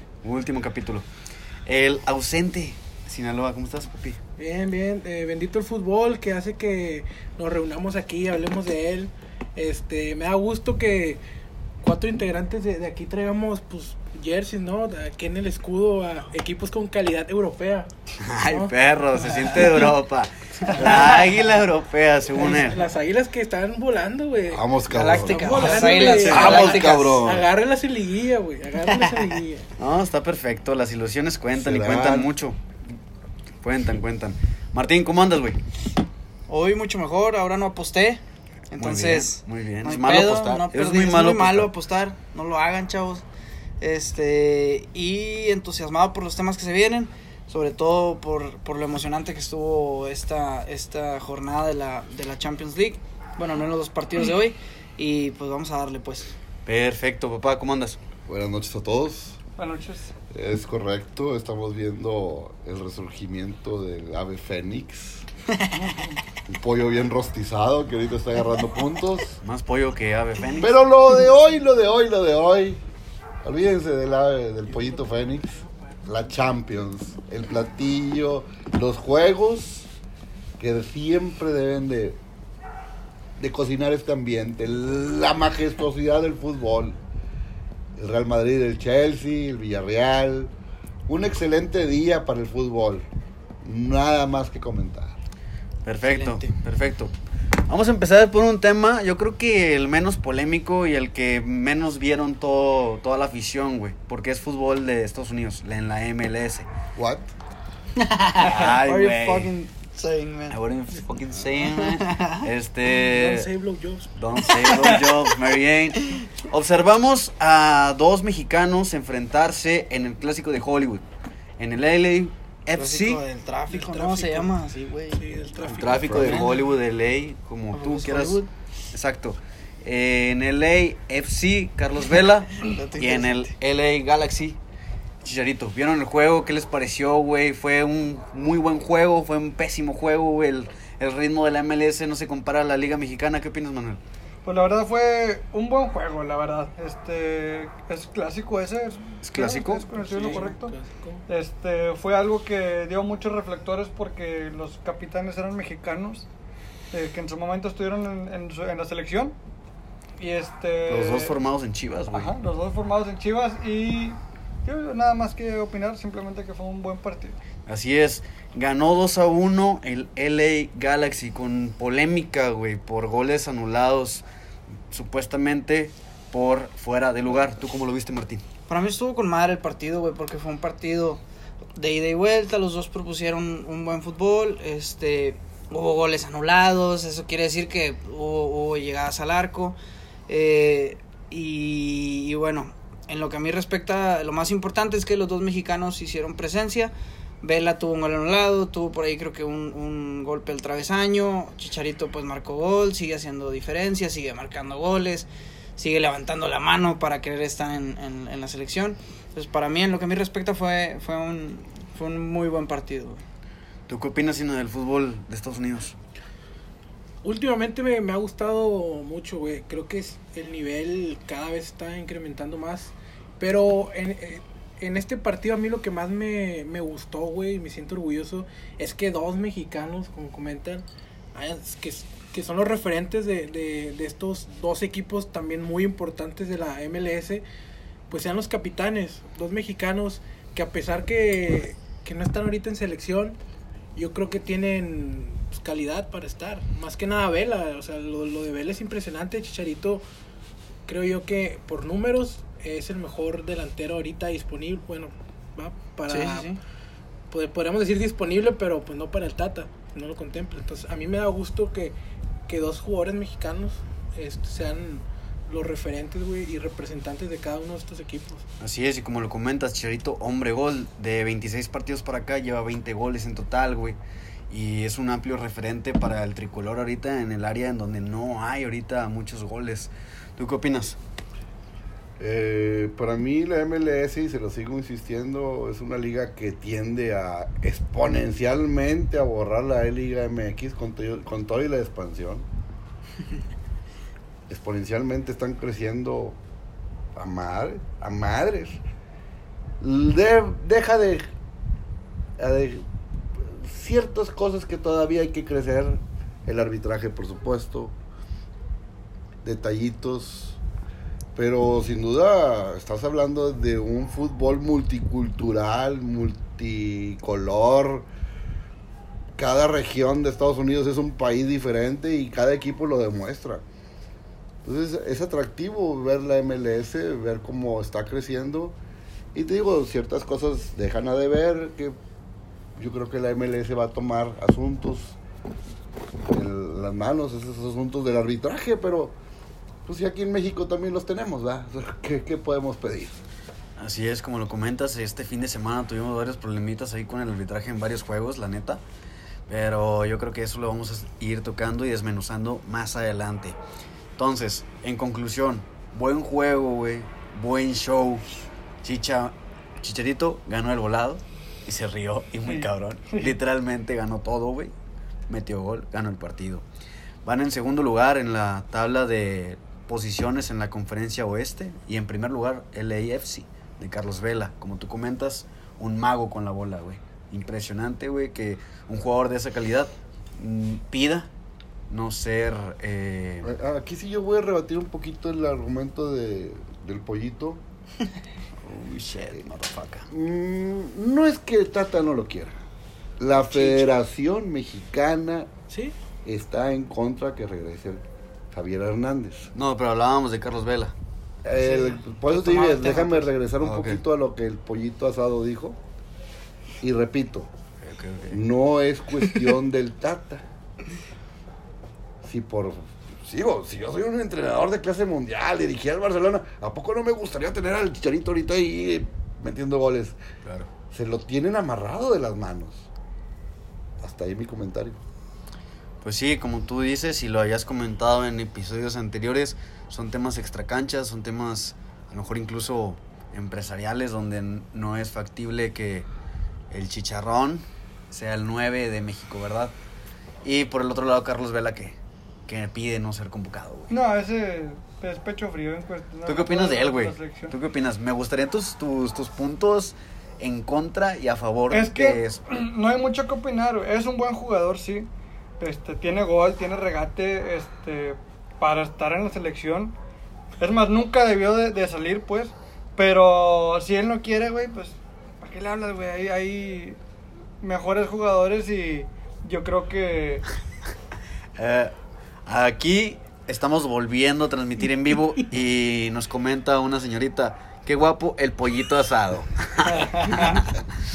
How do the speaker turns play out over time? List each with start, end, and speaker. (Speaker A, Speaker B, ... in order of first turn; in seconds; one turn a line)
Speaker A: 0.2-1.0
Speaker A: 1.6-4.2
Speaker B: 4.4-11.2
Speaker B: 11.8-17.9
Speaker A: 18.2-22.9
Speaker B: 18.4-19.8
Speaker B: 22.3-29.7
Speaker C: 24.5-27.5
Speaker D: 24.9-27.2
Speaker A: 26.1-26.7
Speaker A: 29.8-32.6
Speaker C: 31.6-32.3
Speaker A: 33.6-35.6
Speaker D: 36.5-43.2
Speaker A: 38.8-41.7
Speaker D: 43.8-56.3
Speaker A: 56.6-58.0
Speaker C: 58.3-59.4
Speaker E: 59.6-60.1
Speaker C: 60.3-65.2
Speaker E: 65.8-66.2
Speaker C: 66.5-69.4
Speaker A: 69.4-70.8
Speaker C: 70.6-72.8
Speaker C: 73.4-79.9
Speaker B: 74.7-75.7
Speaker C: 80.6-82.2
Speaker C: 83.4-87.0
Speaker C: 88.0-90.5
Speaker C: 91.1-93.1
Speaker C: 93.6-95.2
Speaker A: 95.8-97.1
Speaker D: 96.0-96.5
Speaker A: 97.7-106.7
Speaker C: 107.0-107.3
Speaker D: 108.0-110.6
Speaker A: 108.4-109.5
Speaker A: 110.5-113.5
Speaker D: 111.8-112.4
Speaker B: 112.9-114.1
Speaker A: 114.2-121.0
Speaker E: 114.7-115.1
Speaker A: 121.6-123.2
Speaker D: 122.8-125.2
Speaker B: 123.7-124.5
Speaker B: 125.1-126.5
Speaker A: 125.6-134.6
Speaker C: 125.9-126.5
Speaker D: 126.1-126.5
Speaker D: 127.7-128.5
Speaker D: 132.5-133.5
Speaker A: 135.2-144.0
Speaker E: 144.4-150.7
Speaker A: 149.2-150.5
Speaker B: 150.0-151.2
Speaker E: 151.3-156.3
Speaker E: 156.9-159.3
Speaker E: 160.2-161.4
Speaker A: 160.9-162.3
Speaker E: 162.1-167.4
Speaker A: 167.7-174.2
Speaker A: 174.9-178.4
Speaker D: 178.7-181.2
Speaker D: 181.8-189.8
Speaker D: 190.3-213.2
Speaker A: 213.9-215.9
Speaker B: 217.2-237.4
Speaker B: 238.1-243.4
Speaker B: 243.9-250.0
Speaker B: 250.9-256.6
Speaker D: 256.1-256.6
Speaker B: 257.3-261.9
Speaker B: 262.5-268.4
Speaker A: 268.6-274.0
Speaker A: 274.5-281.0
Speaker C: 282.2-292.5
Speaker C: 294.5-296.4
Speaker C: 297.1-298.8
Speaker C: 299.8-301.2
Speaker C: 302.4-307.9
Speaker C: 309.4-310.6
Speaker C: 311.4-318.1
Speaker C: 319.4-323.6
Speaker C: 324.6-328.8
Speaker C: 329.3-331.9
Speaker C: 332.8-335.2
Speaker C: 336.3-339.1
Speaker C: 339.8-343.2
Speaker A: 343.8-348.8
Speaker A: 349.5-353.6
Speaker A: 354.2-358.2
Speaker A: 358.8-364.7
Speaker E: 362.4-363.4
Speaker A: 365.3-366.6
Speaker A: 367.2-381.3
Speaker A: 381.9-383.5
Speaker C: 383.4-387.6
Speaker A: 388.6-390.1
Speaker C: 390.1-392.6
Speaker C: 393.2-395.5
Speaker B: 393.4-393.9
Speaker B: 395.7-395.9
Speaker C: 396.2-399.5
Speaker A: 399.5-400.9
Speaker C: 401.4-405.8
Speaker B: 401.6-403.3
Speaker A: 403.6-404.0
Speaker C: 406.8-407.5
Speaker A: 407.8-408.4
Speaker C: 408.3-410.4
Speaker C: 412.2-420.2
Speaker A: 420.4-420.7
Speaker C: 420.9-422.9
Speaker C: 424.0-425.0
Speaker A: 426.0-436.1
Speaker A: 436.7-439.7
Speaker A: 440.4-443.9
Speaker E: 443.9-447.5
Speaker A: 446.2-452.4
Speaker E: 451.7-459.9
Speaker E: 460.6-467.0
Speaker E: 467.6-470.4
Speaker A: 471.6-471.9
Speaker A: 472.4-480.8
Speaker E: 479.9-480.6